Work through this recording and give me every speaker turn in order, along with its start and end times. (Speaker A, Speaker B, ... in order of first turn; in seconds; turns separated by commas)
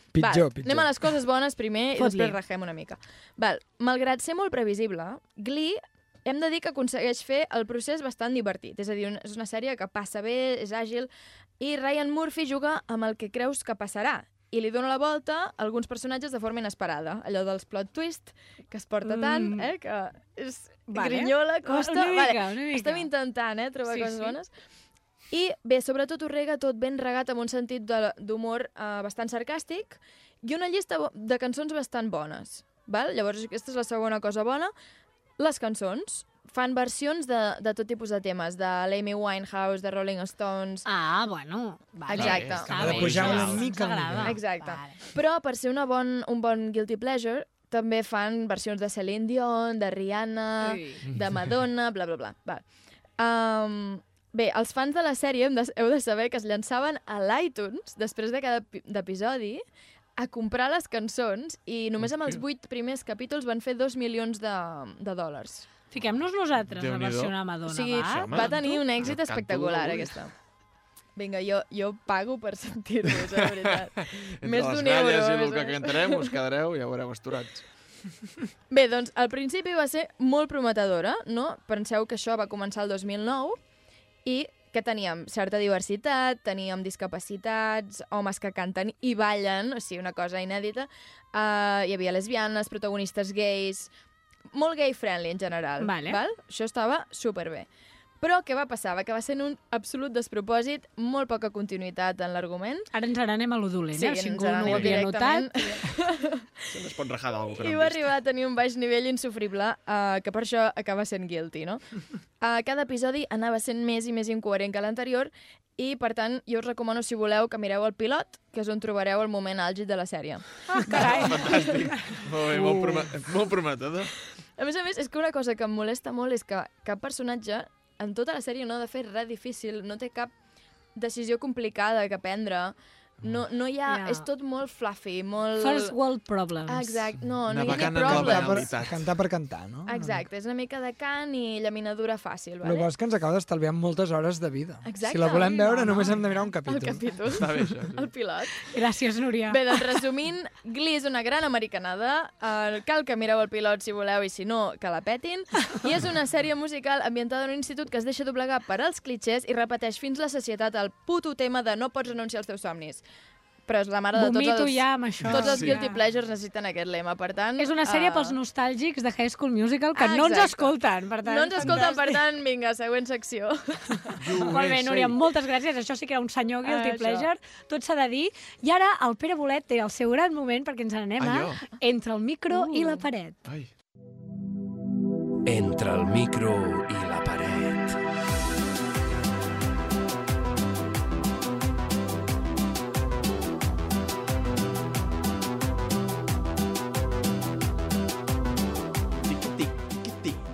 Speaker A: 0.1-0.9, Speaker B: 0.2-24.5, Speaker C: 1.9-2.4, Speaker C: 19.0-19.7, Speaker C: 20.9-23.1, Speaker C: 23.9-24.4, Speaker B: 25.3-34.7, Speaker B: 35.4-40.8, Speaker C: 40.8-45.0, Speaker B: 42.1-43.3, Speaker D: 42.1-44.2, Speaker A: 42.7-44.4, Speaker B: 44.2-52.6, Speaker C: 50.6-51.0, Speaker D: 51.1-51.4, Speaker B: 53.2-59.6, Speaker B: 60.2-65.7, Speaker D: 62.0-62.4, Speaker C: 65.9-68.8, Speaker D: 66.7-67.4, Speaker B: 67.7-70.3, Speaker D: 68.0-70.2, Speaker B: 71.2-76.3, Speaker D: 74.0-77.6, Speaker B: 78.7-83.6, Speaker B: 84.2-93.9, Speaker B: 94.5-97.7, Speaker C: 95.8-96.2, Speaker B: 98.2-102.9, Speaker C: 102.9-105.9, Speaker B: 103.9-106.6, Speaker D: 104.6-105.0, Speaker D: 106.7-108.1, Speaker B: 107.5-111.9, Speaker B: 112.4-121.9, Speaker C: 120.7-121.5, Speaker D: 120.9-124.1, Speaker A: 122.6-123.0, Speaker B: 124.6-130.3, Speaker B: 130.9-135.9, Speaker C: 133.9-134.3, Speaker C: 135.6-137.1, Speaker B: 136.7-138.7, Speaker D: 137.4-139.0, Speaker A: 137.7-140.3, Speaker B: 139.8-142.9, Speaker A: 142.6-147.2, Speaker B: 144.8-146.1, Speaker C: 145.3-146.2, Speaker B: 146.6-148.7, Speaker D: 147.3-148.1, Speaker C: 148.7-149.6, Speaker B: 149.5-163.0, Speaker B: 163.7-168.4, Speaker C: 164.1-166.0, Speaker D: 165.2-165.8, Speaker C: 167.6-172.2, Speaker B: 169.9-174.2, Speaker D: 174.2-175.2, Speaker C: 174.4-183.3, Speaker B: 176.6-177.3, Speaker D: 181.2-181.7, Speaker B: 182.5-183.1, Speaker D: 183.4-183.7, Speaker E: 185.4-188.0, Speaker D: 199.2-200.4